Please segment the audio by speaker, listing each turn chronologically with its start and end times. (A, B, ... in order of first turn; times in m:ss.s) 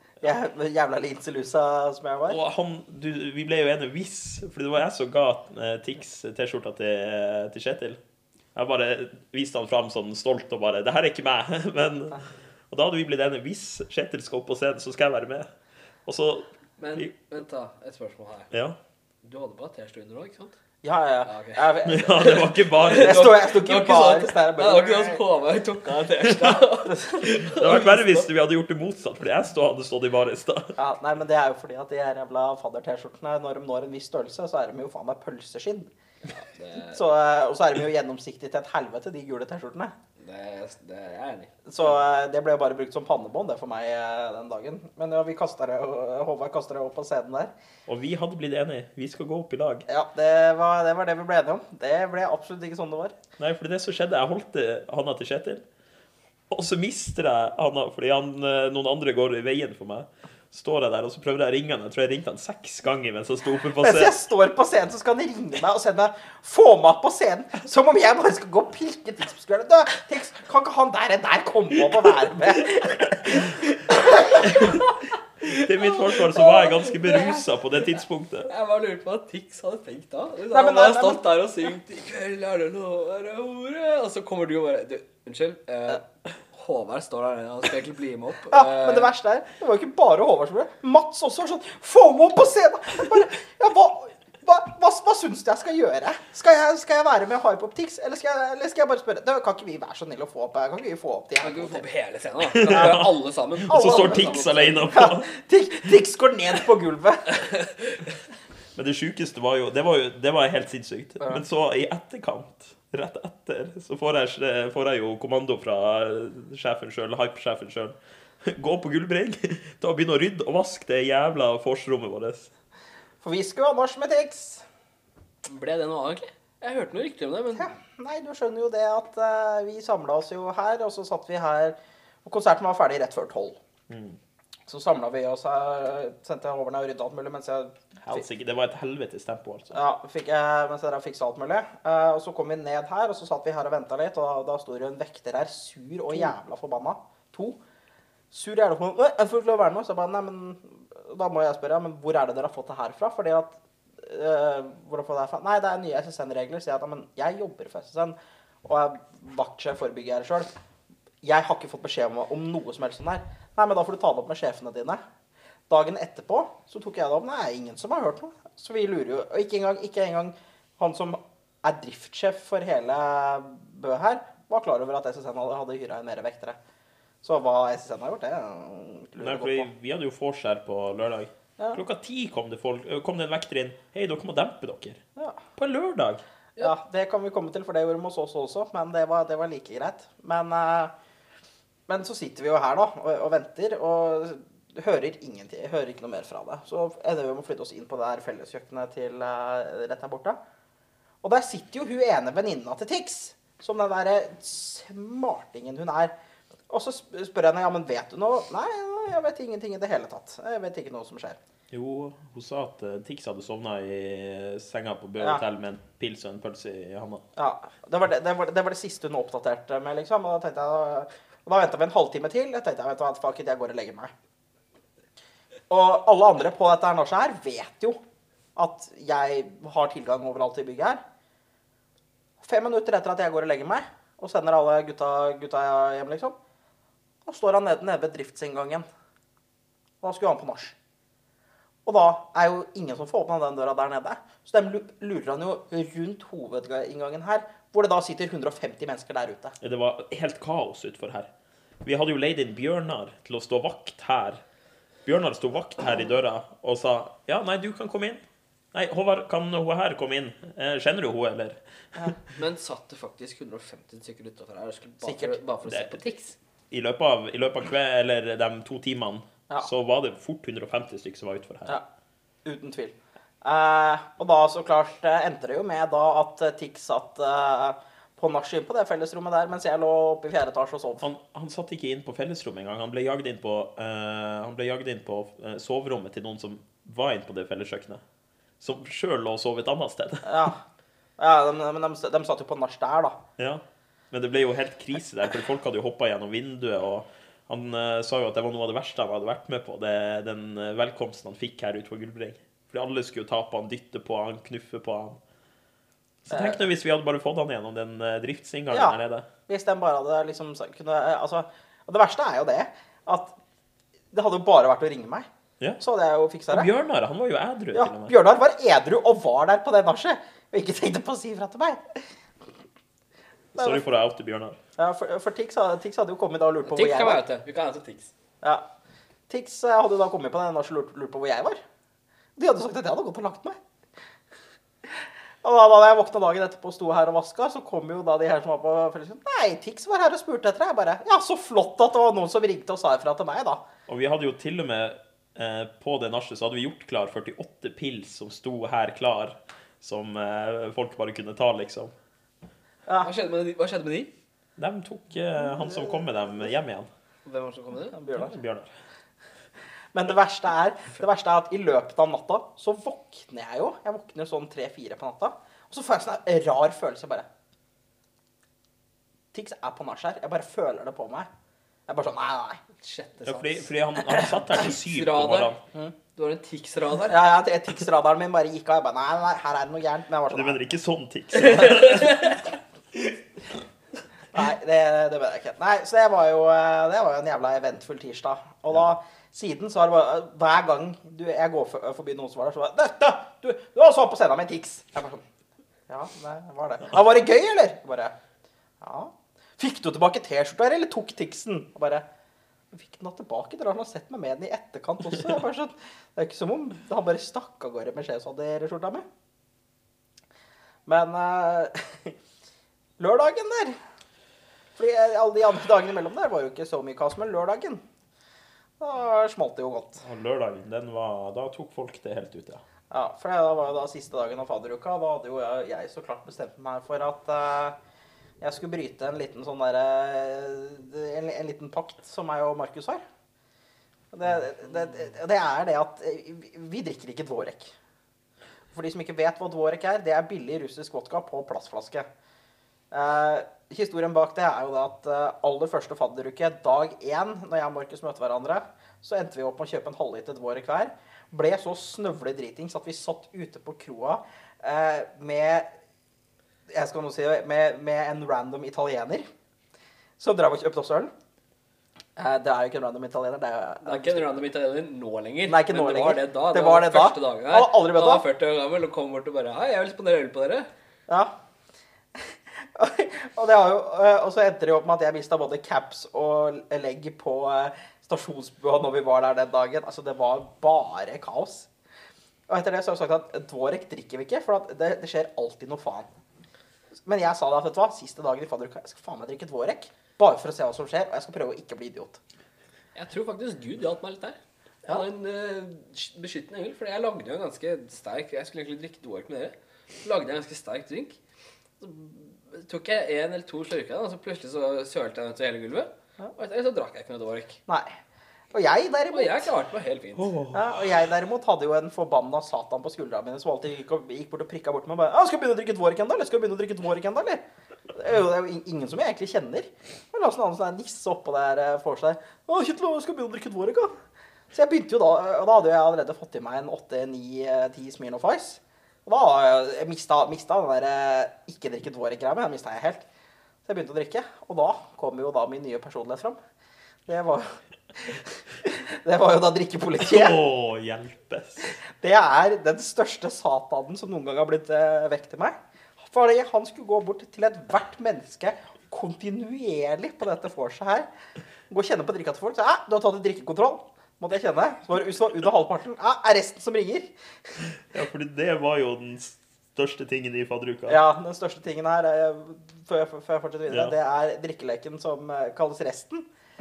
0:00.2-0:02.4 A
0:02.3-0:08.0 B
0:08.6-0:15.5 B
0:16.1-0:17.1 B
0:16.8-0:18.5 C
0:18.5-0:18.8 B
0:19.2-0:20.6 C
0:20.8-0:25.2 A
0:21.2-0:28.3 C
0:21.8-0:23.4 B
0:26.9-0:27.9 A
0:27.4-0:30.8 B
0:30.8-0:35.9 A
0:36.2-0:37.0 C
0:36.9-0:39.9 A
0:40.2-0:41.5 C
0:41.6-0:47.5 A
0:47.9-0:49.8 B
0:49.9-0:53.2 A
0:53.4-0:55.6 B
0:56.5-1:04.1 B
1:03.8-1:14.5 A
1:13.4-1:17.4 C
1:14.4-1:14.9 B
1:15.4-1:18.5 B
1:18.5-1:29.1 C
1:20.5-1:21.2 A
1:28.5-1:41.8 A
1:41.4-1:45.0 C
1:42.5-1:45.3 B
1:42.7-1:43.0 A
1:43.7-1:44.4 A
1:44.9-1:47.4 A
1:47.3-1:48.2 C
1:48.8-2:02.5 B
2:03.2-2:04.7 A
2:05.4-2:07.7 C
2:07.6-2:13.6 A
2:13.9-2:14.2 B
2:14.7-2:18.2 A
2:18.0-2:19.8 B
2:19.7-2:27.6 A
2:28.3-2:40.5 A
2:41.2-2:45.0 A
2:45.7-2:56.6 A
2:57.2-2:59.7 A
2:59.2-3:05.0 B
3:05.6-3:06.2 B
3:06.6-3:10.9 A
3:11.9-3:20.4 A
3:21.2-3:26.1 A
3:26.7-3:31.4 A
3:31.7-3:37.2 B
3:37.4-3:44.1 A
3:45.7-3:48.0 A
3:48.6-3:51.0 A
3:52.4-3:56.4 A
3:57.2-3:58.9 A
4:00.0-4:00.8 A
4:01.8-4:09.6 A
4:09.6-4:11.3 B
4:11.8-4:14.4 B
4:15.1-4:18.2 B
4:18.7-4:22.1 B
4:22.4-4:26.4 C
4:25.0-4:25.4 A
4:25.7-4:26.0 B
4:26.7-4:31.8 B
4:32.4-4:41.1 A
4:41.0-4:48.0 B
4:48.6-4:50.5 B
4:50.2-4:50.6 A
4:51.2-4:53.2 A
4:53.4-5:05.2 B
5:06.3-5:09.3 B
5:06.3-5:06.6 A
5:08.7-5:09.0 A
5:09.5-5:13.4 A
5:14.1-5:15.3 A
5:15.8-5:16.7 A
5:16.5-5:18.2 B
5:17.7-5:22.1 A
5:23.6-5:23.8 A
5:23.6-5:24.6 B
5:24.8-5:27.2 A
5:26.6-5:28.1 C
5:29.3-5:31.6 A
5:32.4-5:33.6 A
5:34.8-5:43.6 A
5:43.9-5:51.9 B
5:53.0-5:54.1 C
5:54.6-5:56.9 B
5:55.4-5:56.1 A
5:57.3-5:58.0 C
5:57.9-5:58.4 A
5:58.1-5:58.7 B
5:59.9-6:07.3 A
6:09.3-6:11.3 A
6:11.9-6:12.6 A
6:12.8-6:13.7 C
6:13.2-6:15.6 B
6:14.5-6:15.5 C
6:16.1-6:17.2 C
6:17.1-6:20.6 A
6:20.3-6:22.4 B
6:21.4-6:22.4 C
6:24.3-6:35.2 A
6:35.9-6:38.1 A
6:38.8-6:42.0 A
6:42.7-6:49.0 A
6:50.9-6:52.2 A
6:53.0-6:53.8 A
6:54.8-6:57.8 A
6:58.8-7:00.0 A
7:00.0-7:02.6 B
7:02.9-7:07.8 A
7:08.4-7:13.0 A
7:14.1-7:17.7 A
7:18.7-7:22.1 A
7:22.9-7:35.7 A
7:36.7-7:39.3 A
7:40.2-7:41.1 A
7:42.2-7:44.4 A
7:43.8-7:50.7 C
7:45.4-7:48.3 A
7:51.1-7:51.4 A
7:52.2-8:01.7 A
8:02.5-8:06.1 A
8:07.0-8:12.2 A
8:13.0-8:21.2 C
8:21.8-8:27.6 C
8:27.7-8:28.0 A
8:28.5-8:29.5 A
8:29.1-8:30.3 C
8:30.2-8:30.7 B
8:30.5-8:44.0 A
8:44.5-8:53.0 A
8:53.6-8:56.4 A
8:57.1-9:00.4 A
9:00.0-9:01.7 B
9:01.7-9:11.1 A
9:11.7-9:17.6 A
9:17.8-9:21.0 B
9:20.9-9:26.3 A